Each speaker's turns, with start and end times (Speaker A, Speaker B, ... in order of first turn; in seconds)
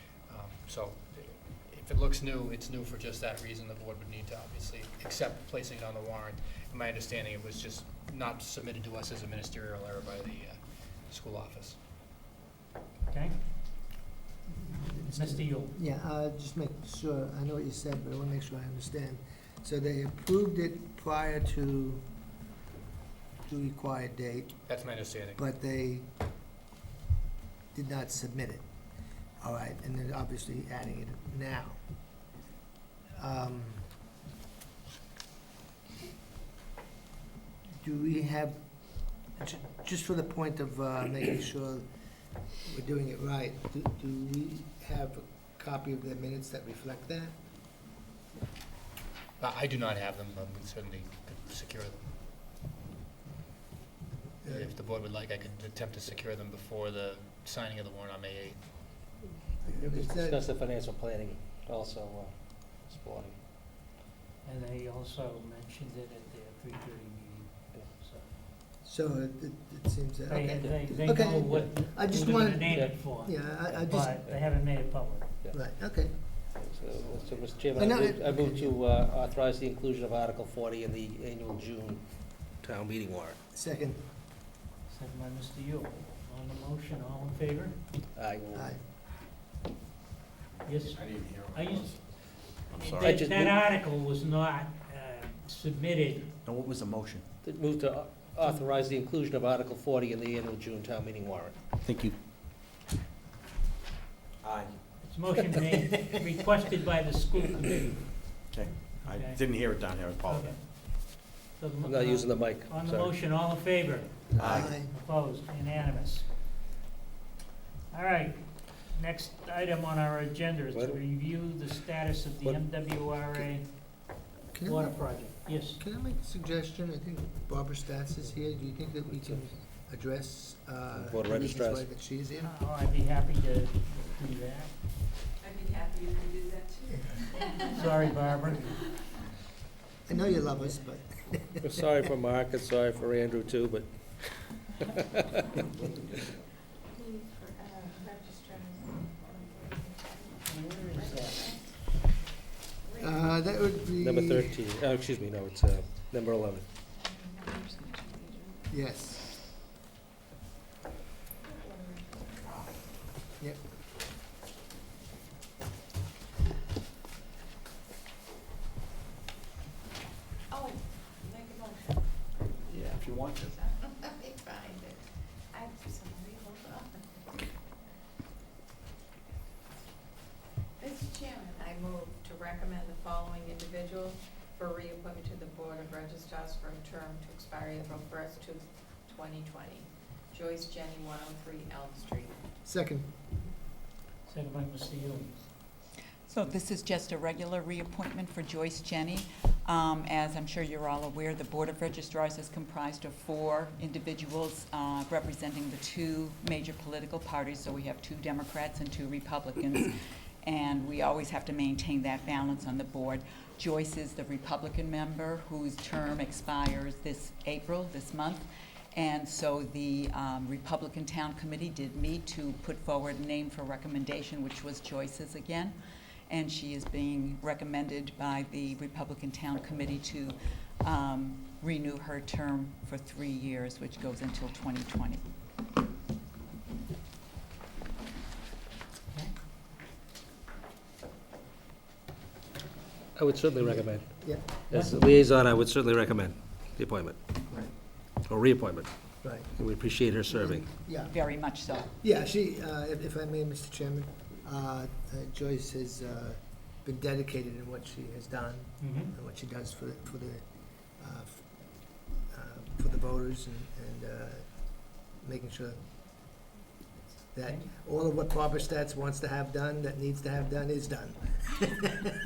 Speaker A: 0.3-10.6, 11.1-11.8, 24.7-25.4, 49.4-52.0, 54.5-58.6
Speaker B: 13.1-13.4, 15.1-15.8, 64.4-68.3, 70.3-75.5, 84.9-87.8, 90.6-96.3, 105.0-108.4, 109.0-109.4, 110.2-116.3, 117.9-124.1, 124.6-125.8, 132.4-134.8, 137.7-138.9, 150.5-151.5, 194.3-195.4, 244.7-245.0, 258.8-259.1
Speaker C: 14.6-22.1, 23.4-24.6, 25.4-26.1, 27.7-28.6, 29.4-31.8, 33.2-33.9, 37.8-38.6, 39.4-41.8, 42.7-47.4, 54.4-54.7, 59.7-60.4, 68.8-74.2, 75.5-76.2, 77.8-78.8, 83.5-84.0, 88.5-88.8, 114.4-114.9, 124.5-125.1, 125.8-132.5, 140.1-141.7, 153.0-154.6, 158.7-159.3, 192.7-193.1, 243.5-244.5, 249.2-249.5, 250.3-251.2, 251.8-260.4, 261.0-261.4, 262.3-265.8, 267.3-272.1
Speaker D: 59.7-63.4, 72.6-73.0, 73.8-74.3, 76.5-83.4, 88.2-88.7, 93.0-93.6, 97.4-101.7, 111.8-113.1, 114.5-114.7, 120.7-121.0, 131.0-131.9, 141.6-145.4, 154.0-156.7, 243.2-244.2, 244.7-247.2, 248.3-250.7
Speaker E: 91.0-92.0, 92.7-93.1, 96.5-97.2, 101.8-102.2, 104.4-104.8, 108.5-110.5, 114.4-114.7, 172.7-173.5
Speaker F: 137.1-137.7, 147.7-150.2, 170.5-172.0, 174.1-175.0, 175.5-177.1, 180.8-192.4
Speaker G: 196.3-225.8, 226.3-235.2, 250.5-251.9